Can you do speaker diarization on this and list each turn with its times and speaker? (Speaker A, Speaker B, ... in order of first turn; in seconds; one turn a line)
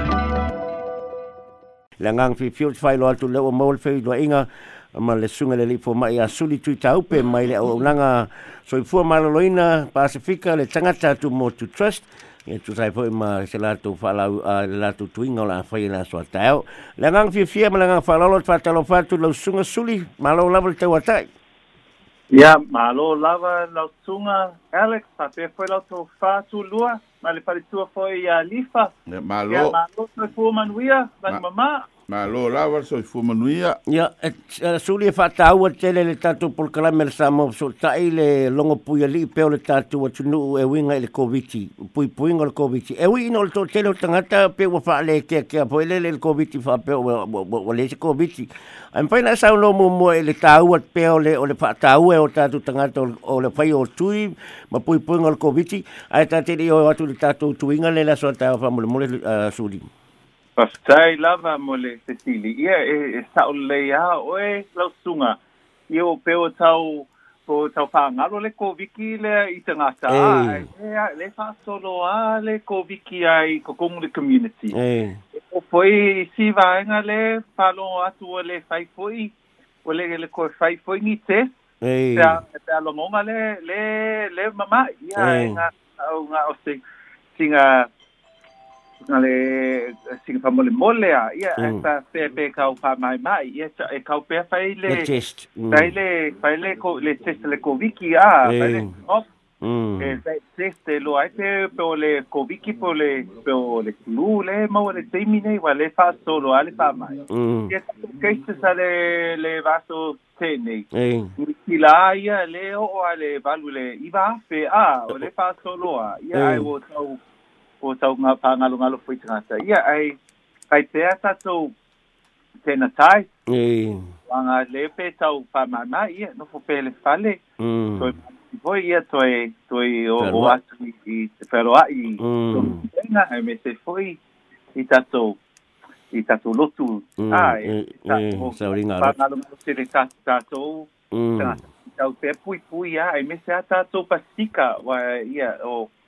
Speaker A: 2.0-21.2
Speaker B: 22.3-28.9
Speaker C: 29.1-29.8
Speaker B: 29.5-31.9
Speaker C: 32.1-33.8
Speaker A: 33.9-59.9
Speaker B: 60.5-74.8
Speaker A: 70.1-70.7
Speaker A: 74.7-75.2
Speaker B: 75.3-81.6
Speaker A: 81.8-82.4
Speaker B: 82.1-86.8
Speaker A: 85.2-85.6
Speaker B: 87.3-87.9
Speaker B: 89.0-95.1
Speaker A: 91.6-91.8
Speaker A: 94.8-95.9
Speaker B: 95.7-99.2
Speaker A: 98.4-98.9
Speaker A: 99.6-100.2
Speaker B: 100.0-117.2
Speaker A: 107.3-107.8
Speaker A: 110.9-111.3
Speaker A: 116.3-116.7
Speaker B: 117.8-120.2
Speaker B: 120.7-121.7
Speaker B: 122.6-123.3
Speaker A: 123.5-124.0
Speaker B: 124.3-127.4
Speaker A: 127.6-128.1
Speaker B: 128.0-134.2
Speaker A: 130.2-130.6
Speaker A: 132.2-132.8
Speaker B: 134.7-135.4
Speaker B: 136.1-145.9
Speaker A: 137.2-139.1
Speaker A: 141.1-141.6